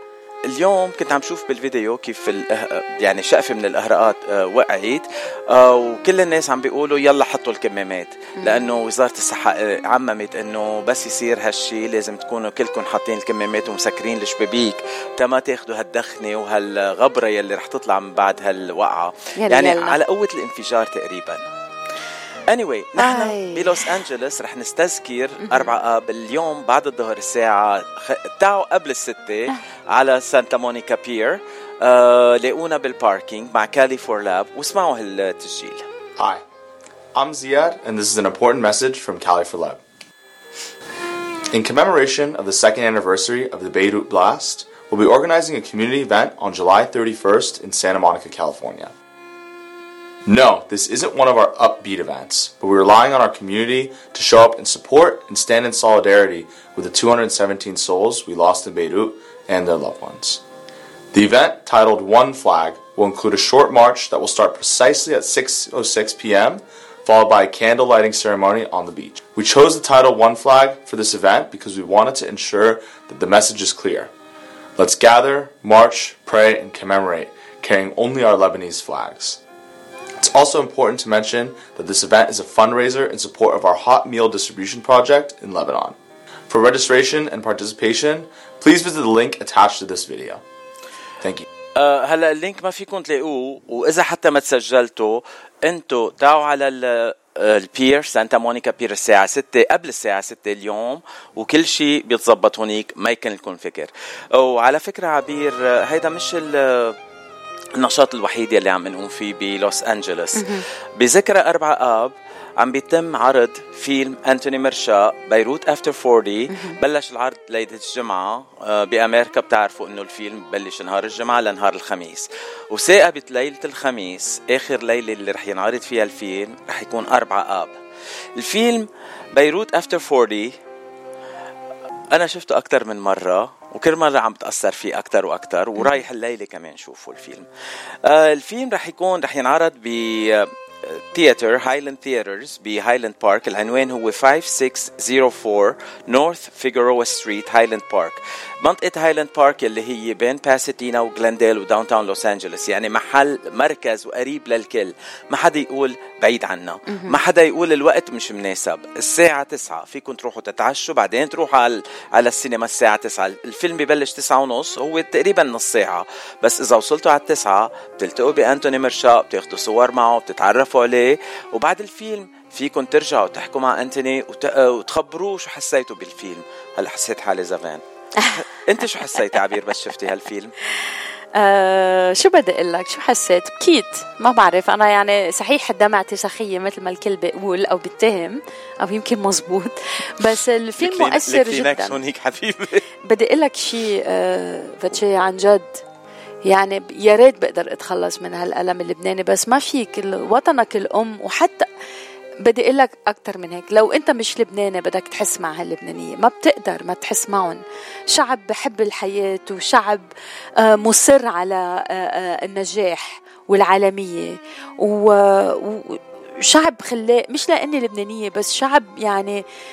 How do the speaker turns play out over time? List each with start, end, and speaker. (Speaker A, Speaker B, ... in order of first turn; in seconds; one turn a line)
Speaker A: 0.5-21.4
Speaker B: 19.4-20.0
Speaker A: 22.5-35.8
Speaker B: 23.0-23.9
Speaker B: 25.4-25.7
Speaker C: 36.2-36.4
Speaker C: 37.1-39.8
Speaker C: 41.5-48.9
Speaker C: 50.2-60.4
Speaker C: 61.1-74.1
Speaker C: 74.8-79.4
Speaker C: 80.2-86.0
Speaker C: 86.5-90.4
Speaker A: 91.8-107.0
Speaker A: 107.8-127.7
Speaker B: 110.3-110.6
Speaker B: 116.5-116.8
Speaker A: 128.4-130.5
Speaker A: 132.1-137.5
Speaker A: 138.0-180.5
Speaker B: 156.9-157.2
Speaker B: 181.3-191.9
Speaker A: 190.8-192.8
Speaker B: 193.0-195.8
Speaker B: 196.4-201.7
Speaker B: 202.4-210.1
Speaker B: 210.6-219.4